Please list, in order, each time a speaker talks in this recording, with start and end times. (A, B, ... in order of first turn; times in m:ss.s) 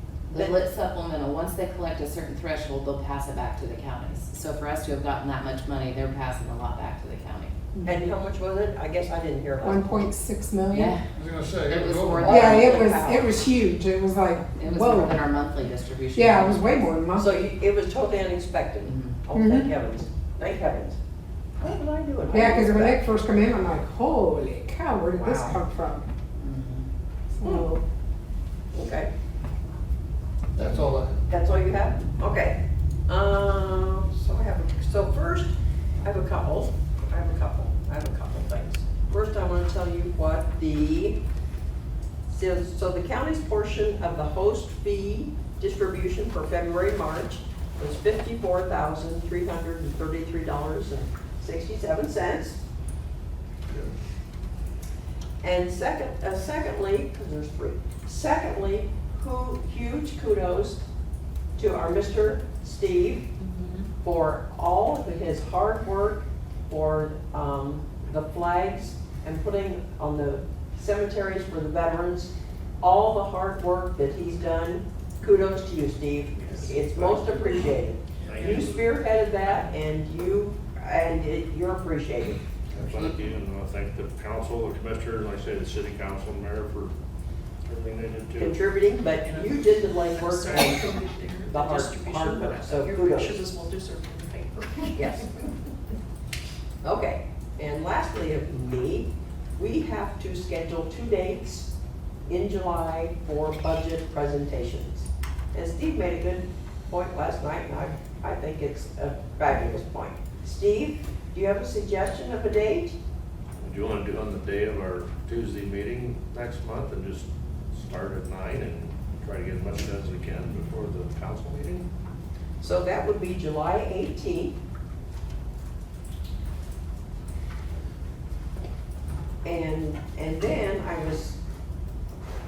0:00.3-0:07.5 A
0:07.7-0:08.0 B
0:07.8-0:10.1 C
0:09.6-0:10.9 B
0:10.7-0:11.0 A
0:11.1-0:12.8 D
0:11.7-0:13.2 A
0:12.2-0:13.2 C
0:12.3-0:15.2 B
0:14.6-0:16.9 A
0:16.1-0:17.4 B
0:17.2-0:21.0 C
0:18.8-0:19.2 A
0:19.3-0:19.7 B
0:21.6-0:23.2 C
0:22.3-0:26.1 B
0:25.1-0:25.6 C
0:26.4-0:26.9 A
0:27.3-0:27.8 B
0:28.7-0:29.1 C
0:30.5-0:31.2 D
0:31.3-0:35.5 C
0:36.0-0:41.2 C
0:42.3-0:52.6 C
0:55.4-1:00.8 C
1:01.6-1:03.3 C
1:03.4-1:03.8 E
1:04.0-1:22.4 C
1:16.4-1:18.9 F
1:18.3-1:18.7 E
1:22.7-1:23.1 D
1:22.7-1:26.9 F
1:27.6-1:28.6 F
1:28.4-1:33.4 C
1:29.2-1:35.3 E
1:34.9-1:35.3 C
1:36.8-1:41.7 C
1:42.3-1:53.0 C
1:53.6-2:01.9 F
2:02.6-2:04.6 C
2:09.4-2:11.4 C